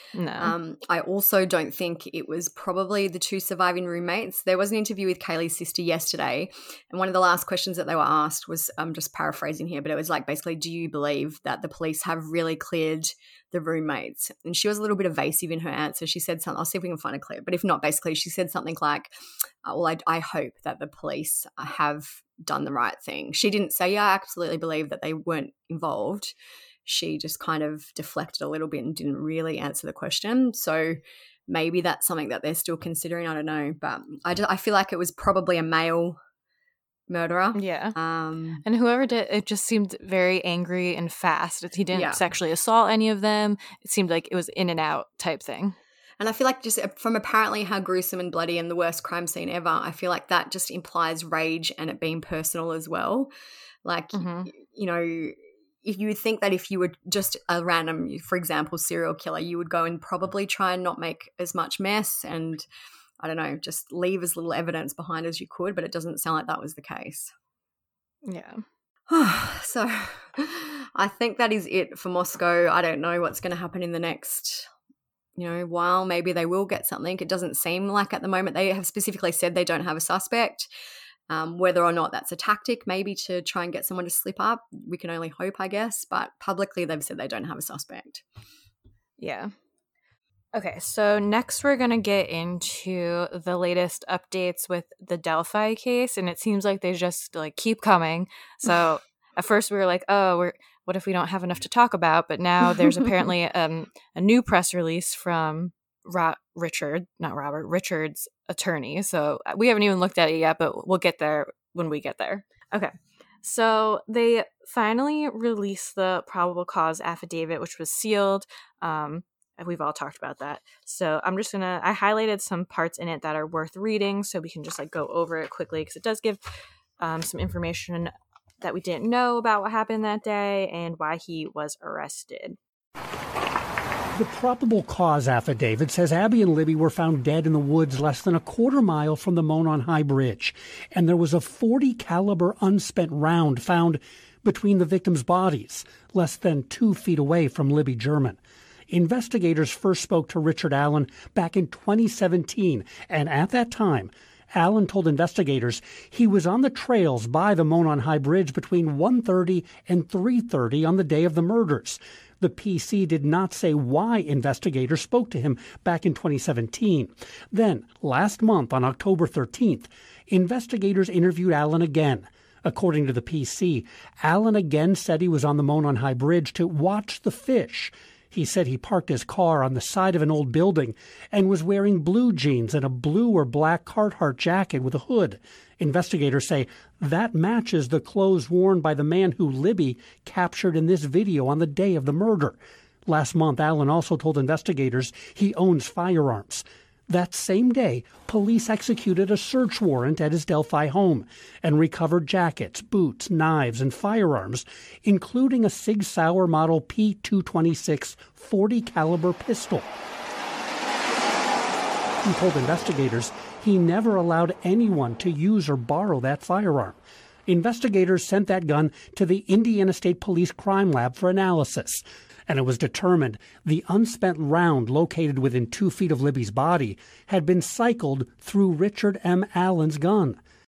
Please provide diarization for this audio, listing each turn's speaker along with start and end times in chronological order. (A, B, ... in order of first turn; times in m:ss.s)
0:00.1-0:00.5 A
0:00.4-0:19.1 B
0:19.6-0:26.3 B
0:26.8-0:36.2 B
0:37.1-0:38.6 B
0:37.5-0:38.0 A
0:38.6-0:45.8 A
0:41.9-0:42.2 B
0:46.2-0:53.3 B
0:53.8-1:02.6 B
0:54.1-0:54.5 A
1:03.2-1:07.3 B
1:08.2-1:08.6 A
1:09.1-1:14.7 B
1:15.4-1:20.7 B
1:21.3-1:28.2 B
1:29.2-1:29.5 A
1:30.5-2:06.4 A
2:07.0-2:12.6 A
2:14.2-2:28.4 C
2:28.9-3:29.8 C
3:32.2-3:50.4 C